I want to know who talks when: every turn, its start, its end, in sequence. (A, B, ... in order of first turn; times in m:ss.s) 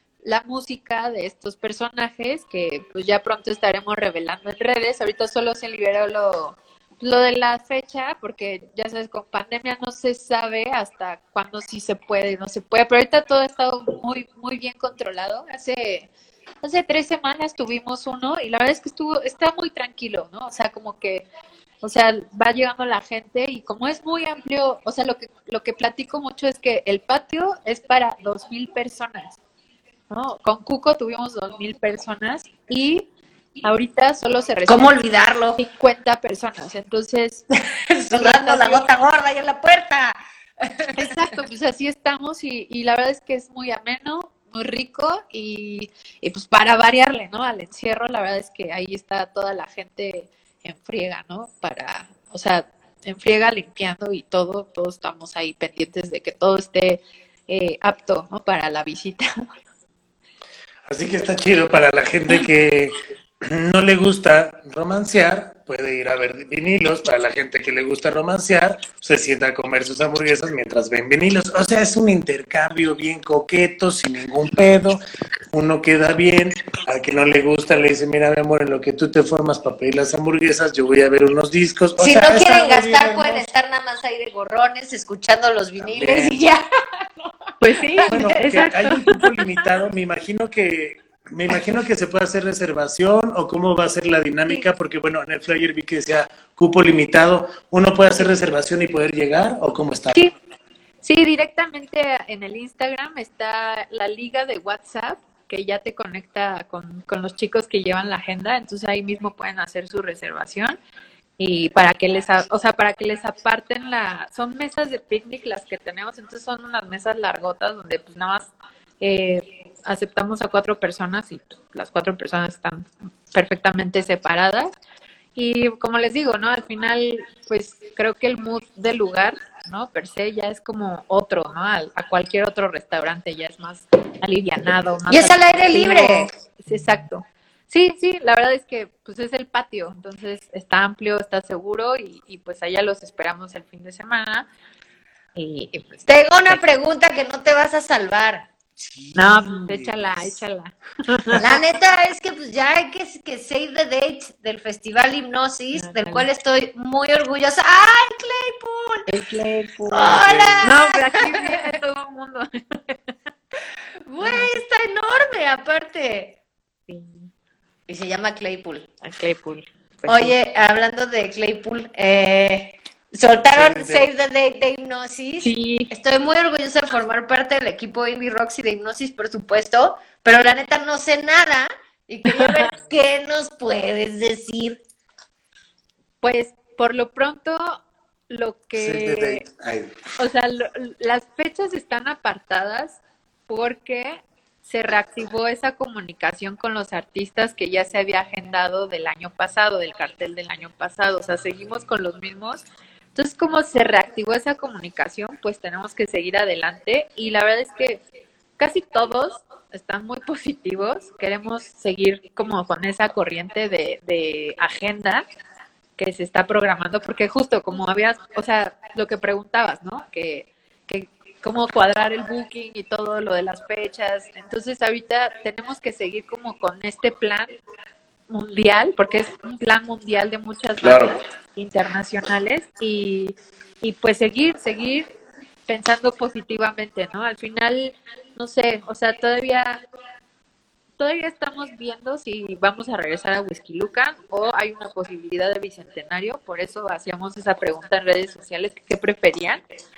0:00.2-0:16.1 A
0:16.6-0:21.2 A
0:21.8-0:29.4 A
0:30.1-0:33.0 A
0:33.6-0:35.0 A
0:34.6-0:35.6 B
0:35.6-0:37.4 A
0:37.7-0:41.2 B
0:38.1-0:38.9 A
0:41.0-0:59.4 A
1:00.8-1:23.5 C
1:22.0-1:26.6 B
1:25.8-1:26.4 C
1:27.6-1:29.3 A
1:27.8-1:28.4 B
1:28.0-1:40.2 C
1:41.0-1:50.8 A
1:51.4-2:04.7 A
2:05.4-2:24.5 A
2:15.1-2:16.3 B
2:25.4-2:26.6 A
2:26.1-2:28.5 B
2:28.8-2:30.4 C
2:29.1-2:31.5 A
2:31.4-2:39.1 B
2:35.7-2:36.3 A
2:39.1-2:43.0 A
2:39.9-2:41.7 B
2:40.0-2:40.8 C
2:44.1-2:46.4 B
2:44.2-2:44.5 A
2:46.9-2:47.3 A
2:47.9-2:48.9 B
2:49.0-2:50.3 A
2:50.1-3:04.8 B
2:53.5-2:54.1 C
2:55.4-2:55.9 A
3:02.3-3:02.7 A
3:06.2-3:09.4 A
3:08.7-3:10.0 C
3:10.2-3:28.0 A
3:28.6-3:35.2 A
3:36.0-3:47.5 A
3:48.3-3:55.1 A
3:50.8-3:51.2 C
3:55.7-3:59.8 A
4:01.0-4:09.6 A